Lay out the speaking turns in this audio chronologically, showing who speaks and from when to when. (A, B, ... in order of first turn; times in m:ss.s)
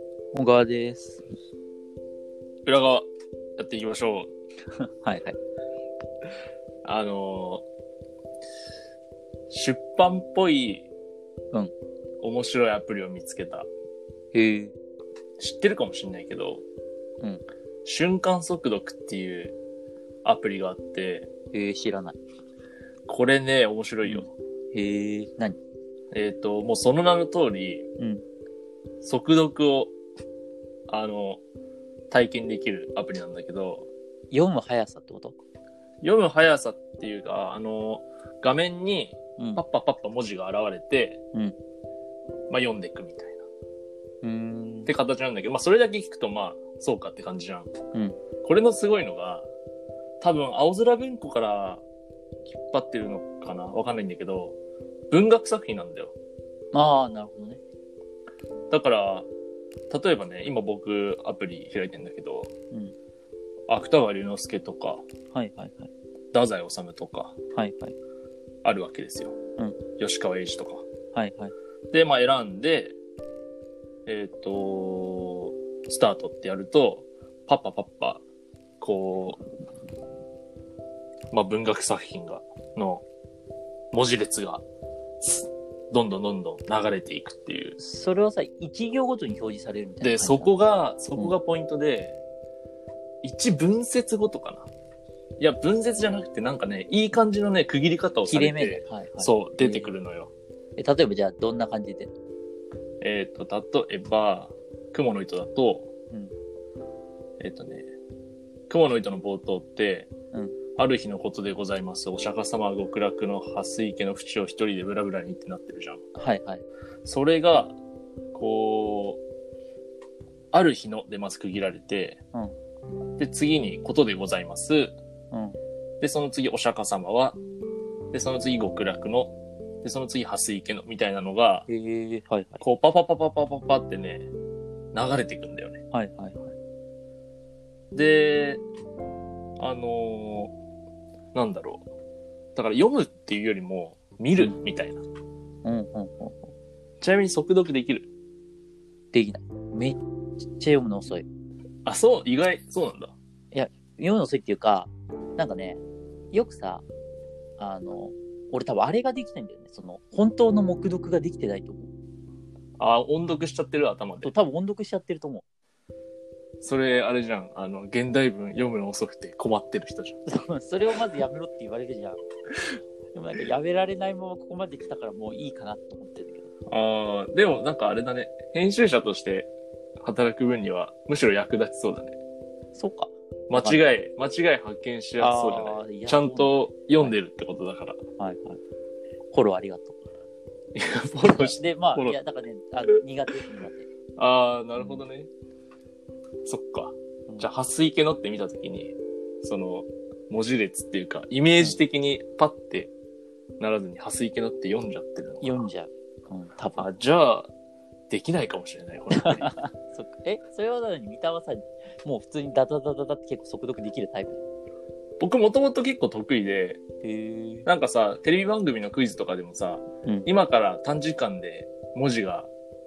0:00.3-0:01.2 A
0:02.6-0:04.3 B
0:05.0-0:05.4 A
0:06.8-0:07.6 B
0:09.5-0:10.9 B
0:12.2-0:13.7 B
0:14.3-0:14.7 A
0:15.4-0:16.6 B
0:17.8-0:19.6 B
0:20.2-0:21.3 B
0:21.5-0:22.2 A
0:23.1-0:24.3 B
0:24.0-0:25.6 A
0:26.1-0:27.9 B
0:28.0-0:28.2 A
0:29.0-0:29.9 B
0:30.9-0:31.4 B
0:32.1-0:33.9 B
0:34.3-0:35.4 A
0:36.0-0:41.2 B
0:42.5-0:43.4 B
0:44.2-0:44.9 A
0:44.8-0:47.7 B
0:47.9-0:48.2 A
0:48.4-0:49.5 B
0:50.2-0:51.8 B
0:52.6-0:54.6 B
0:55.1-0:56.1 B
0:56.7-0:57.6 A
0:58.7-0:59.3 B
0:59.9-1:02.5 B
1:03.7-1:05.0 B
1:05.3-1:05.9 A
1:06.3-1:07.4 B
1:07.5-1:07.9 A
1:08.6-1:09.4 B
1:10.0-1:10.9 B
1:11.1-1:11.5 A
1:11.9-1:13.0 B
1:14.0-1:18.2 B
1:18.8-1:19.4 B
1:21.3-1:23.0 B
1:23.9-1:24.6 B
1:25.2-1:27.8 B
1:27.8-1:30.5 A
1:30.0-1:32.2 B
1:33.2-1:34.7 B
1:35.4-1:40.3 B
1:38.3-1:39.9 A
1:40.8-1:42.1 A
1:43.0-1:45.9 B
1:47.4-1:47.9 B
1:48.7-1:50.1 B
1:50.8-1:56.0 B
1:56.2-1:56.6 A
1:57.0-1:57.8 B
1:58.3-1:59.2 B
2:00.5-2:02.2 B
2:03.2-2:04.9 B
2:05.3-2:05.6 A
2:06.0-2:07.4 B
2:08.1-2:11.7 B
2:11.7-2:12.6 A
2:12.6-2:14.3 B
2:14.9-2:15.8 B
2:15.9-2:16.5 A
2:17.9-2:18.6 B
2:19.6-2:20.5 B
2:21.3-2:21.8 B
2:22.5-2:25.0 B
2:25.6-2:26.5 A
2:27.0-2:28.1 B
2:29.1-2:31.2 A
2:31.8-2:33.1 B
2:33.5-2:35.8 A
2:36.3-2:36.8 A
2:37.6-2:41.9 A
2:42.8-2:44.3 B
2:44.2-2:45.4 A
2:46.6-2:50.2 B
2:50.3-2:52.2 A
2:53.1-2:56.5 A
2:56.7-3:02.2 B
3:02.7-3:03.8 A
3:03.5-3:08.0 B
3:05.2-3:07.2 A
3:08.2-3:08.6 A
3:09.3-3:10.0 A
3:10.7-3:12.2 B
3:11.2-3:13.9 A
3:14.2-3:15.3 B
3:14.8-3:15.0 A
3:16.4-3:22.9 B
3:23.6-3:25.6 B
3:25.4-3:26.9 A
3:26.8-3:27.5 B
3:28.1-3:29.5 B
3:29.1-3:34.4 A
3:35.2-3:36.8 B
3:37.0-3:37.7 A
3:37.6-3:42.5 B